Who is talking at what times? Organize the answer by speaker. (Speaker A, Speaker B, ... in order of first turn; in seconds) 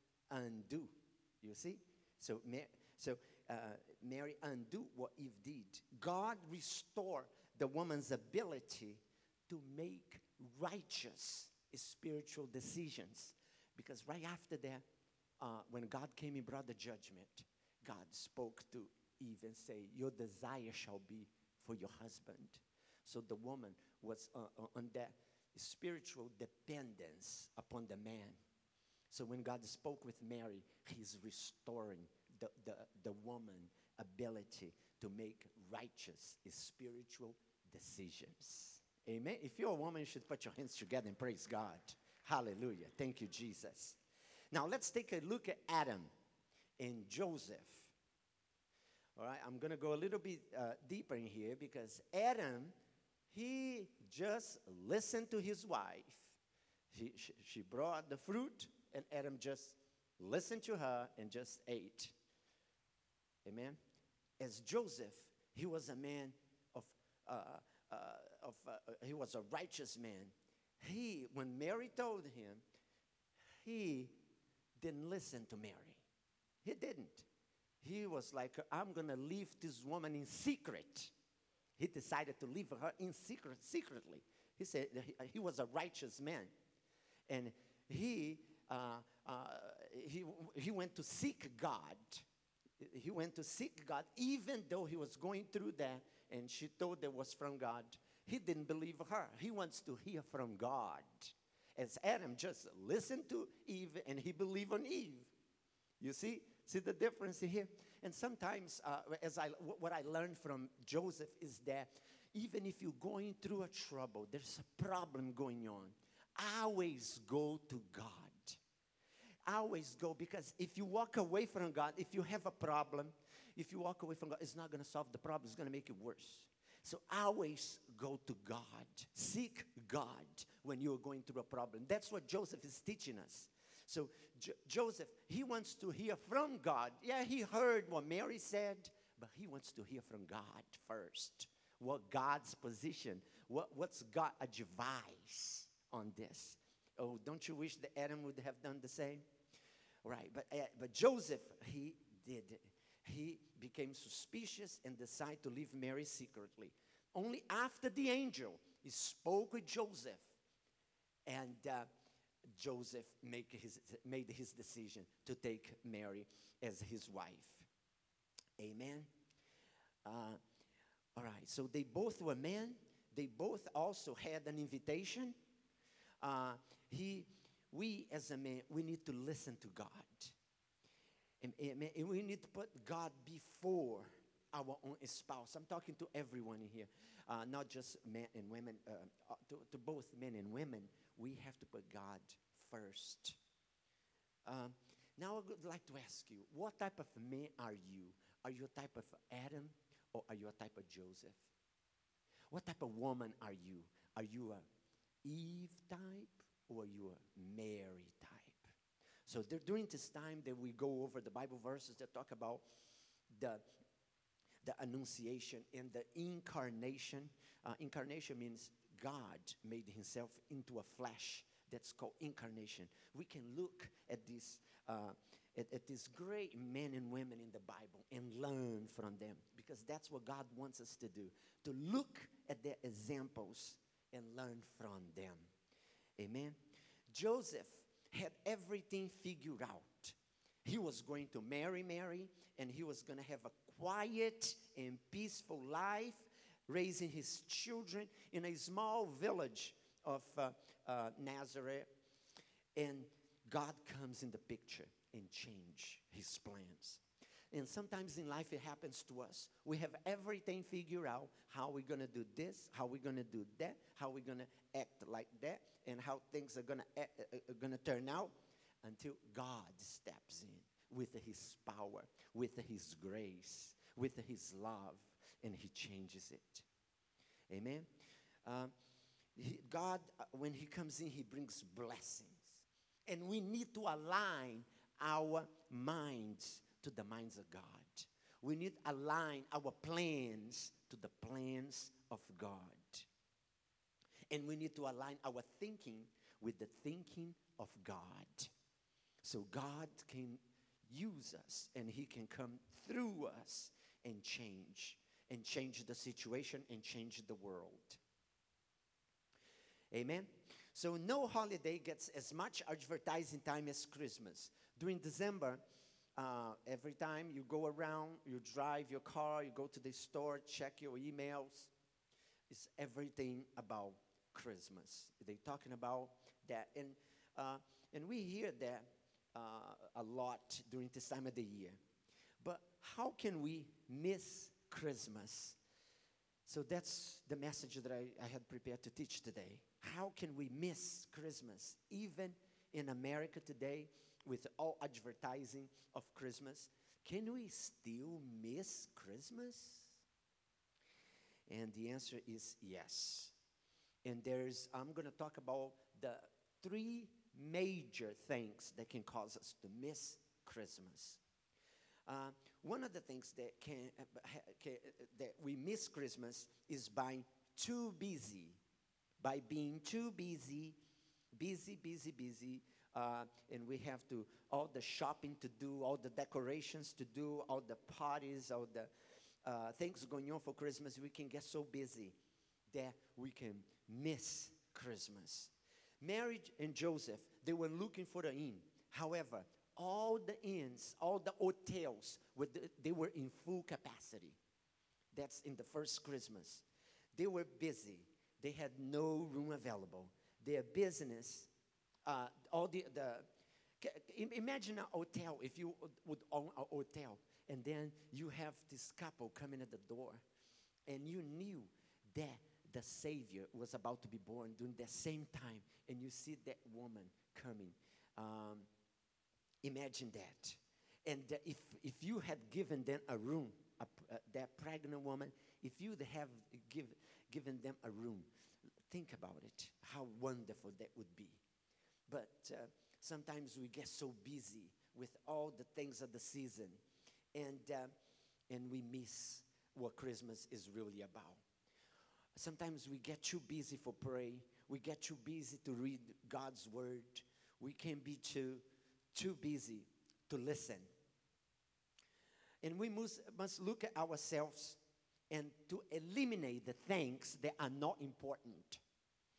Speaker A: 0.3-14.8, 15.4-28.4, 29.1-44.0, 44.5-46.1, 46.8-47.9, 49.1-52.7, 53.3-56.4, 56.9-62.1, 63.4-63.8, 64.4-72.6, 73.6-74.2, 74.8-76.1, 76.6-77.3, 77.8-81.1, 81.8-86.5, 87.3-92.2, 92.8-105.3, 106.0-118.6, 119.5-149.2, 150.0-160.3, 161.2-161.9, 162.5-167.7, 168.6-169.1, 170.0-170.4, 171.2-175.3, 176.2-180.3, 181.4-193.4, 194.4-201.5, 202.5-204.6, 205.2-208.7, 209.2-212.6, 213.3-213.7, 214.6-235.5, 236.2-236.6, 237.1-251.9, 252.8-276.6, 277.5-277.9, 278.4-278.7, 279.4-293.1, 294.3-298.5, 299.2-308.0, 309.9-315.6, 316.2-321.7, 322.5-331.8, 332.4-335.6, 336.4-350.0, 351.5-353.3, 354.0-361.2, 362.1-368.6, 369.2-370.8, 371.3-378.9, 379.4-382.2, 382.7-394.4, 395.1-401.5, 402.1-403.3, 403.8-410.2, 410.9-418.7, 419.6-428.3, 428.9-431.4, 432.1-436.8, 437.3-437.9, 438.5-441.4, 442.4-450.9, 452.6-458.8